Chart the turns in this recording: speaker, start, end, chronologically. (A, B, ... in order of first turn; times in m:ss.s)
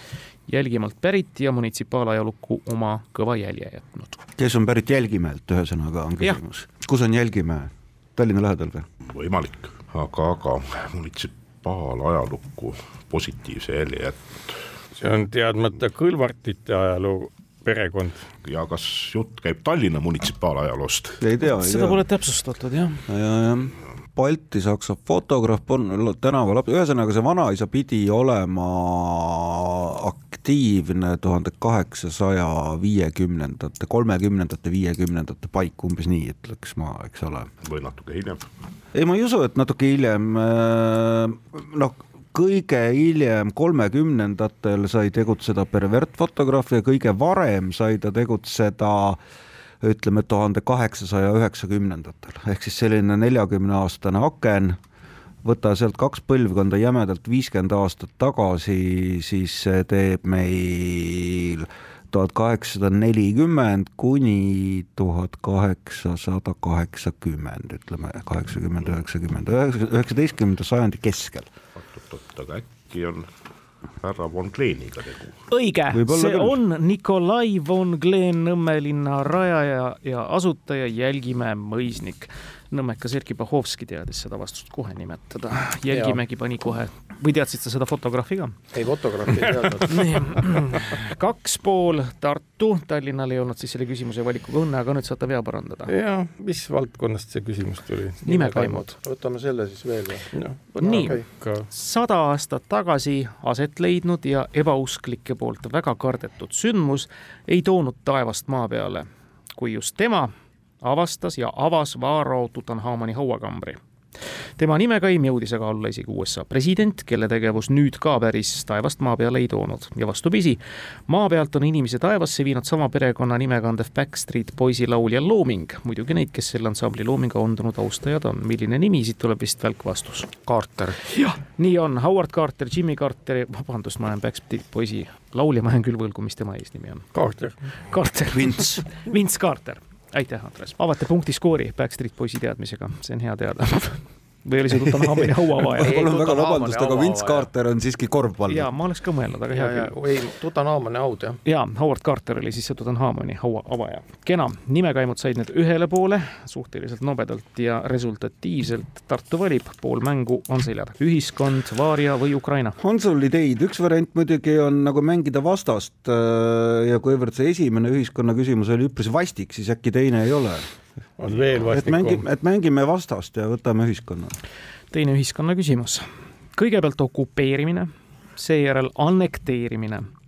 0:00.5-0:04.2 A
0:04.4-0:08.9 B
0:09.1-0:14.6 C
0:15.0-0:18.2 D
0:18.4-0:21.2 C
0:21.2-0:22.0 B
0:21.6-0:23.0 A
0:23.1-0:37.5 B
0:37.6-0:38.4 C
0:38.9-0:49.2 B
0:49.8-0:54.8 B
0:55.4-1:11.5 B
1:11.7-1:13.3 C
1:14.0-1:15.4 C
1:15.5-1:28.6 A
1:15.9-1:16.6 B
1:25.9-1:26.2 E
1:28.7-1:30.6 E
1:29.9-1:35.9 A
1:35.9-1:38.2 D
1:38.2-1:38.9 A
1:38.2-1:41.2 E
1:40.4-1:41.7 D
1:40.8-1:41.2 A
1:41.7-1:50.3 A
1:50.8-1:53.8 A
1:54.6-2:10.3 A
2:10.4-2:11.0 E
2:11.0-2:17.1 A
2:17.1-2:17.6 D
2:17.8-2:26.0 A
2:18.3-2:18.8 B
2:24.8-2:28.7 B
2:25.8-2:27.5 E
2:28.5-2:29.9 A
2:29.5-2:31.4 E
2:31.4-2:42.8 A
2:42.8-2:50.6 B
2:51.2-2:52.2 D
2:51.7-2:54.3 B
2:54.9-2:56.0 A
2:56.6-3:00.1 A